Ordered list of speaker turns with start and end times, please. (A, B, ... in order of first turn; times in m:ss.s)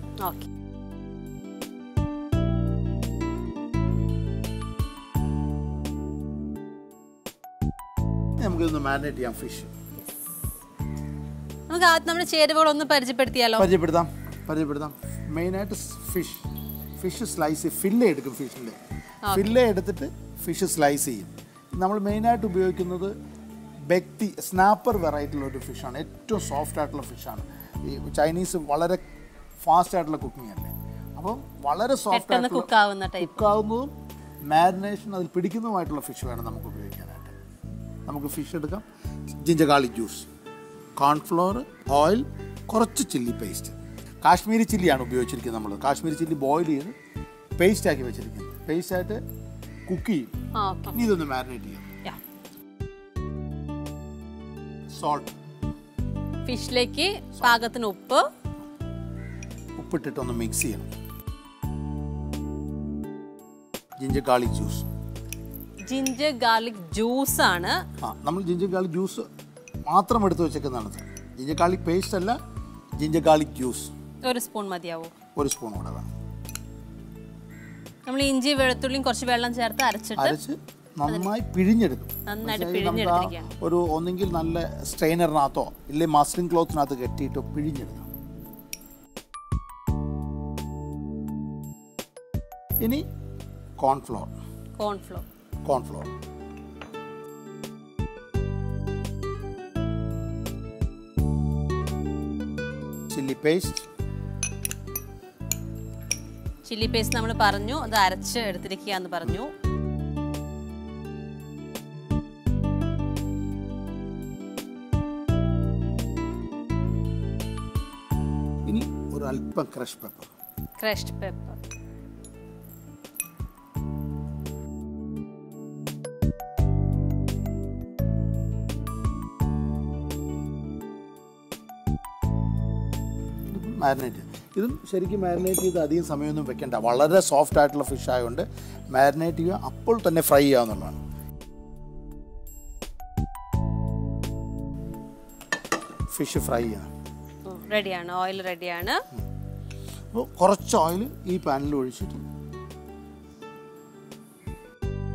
0:08.4-0:09.7 A
0:11.7-0:13.7 B
0:13.6-0:16.4 A
0:17.0-0:18.8 A
0:19.2-0:19.6 B
0:19.3-0:23.1 A
0:23.9-0:29.0 A
0:29.6-0:33.9 A
0:32.1-0:33.5 B
0:34.5-0:37.3 A
0:38.0-0:38.8 A
0:39.4-0:40.3 A
0:41.0-0:46.9 A
0:47.6-0:49.2 A
0:49.9-0:50.3 A
0:50.6-0:50.9 B
0:50.9-0:51.9 A
0:54.9-0:55.3 A
0:56.4-0:58.2 B
0:59.8-1:00.9 A
1:04.0-1:04.8 A
1:05.9-1:07.8 B
1:08.0-1:09.2 A
1:09.8-1:12.4 A
1:13.0-1:13.9 A
1:14.2-1:15.1 B
1:15.4-1:16.1 A
1:18.0-1:20.4 B
1:20.2-1:28.1 A
1:22.3-1:23.5 B
1:32.8-1:33.0 A
1:33.8-1:34.3 A
1:34.8-1:35.2 B
1:35.6-1:36.1 A
1:43.1-1:43.9 A
1:46.6-1:49.5 B
1:58.6-2:00.3 A
2:00.8-2:01.6 B
2:13.5-2:21.0 A
2:26.1-2:26.9 A
2:27.5-2:29.0 B
2:30.1-2:32.2 A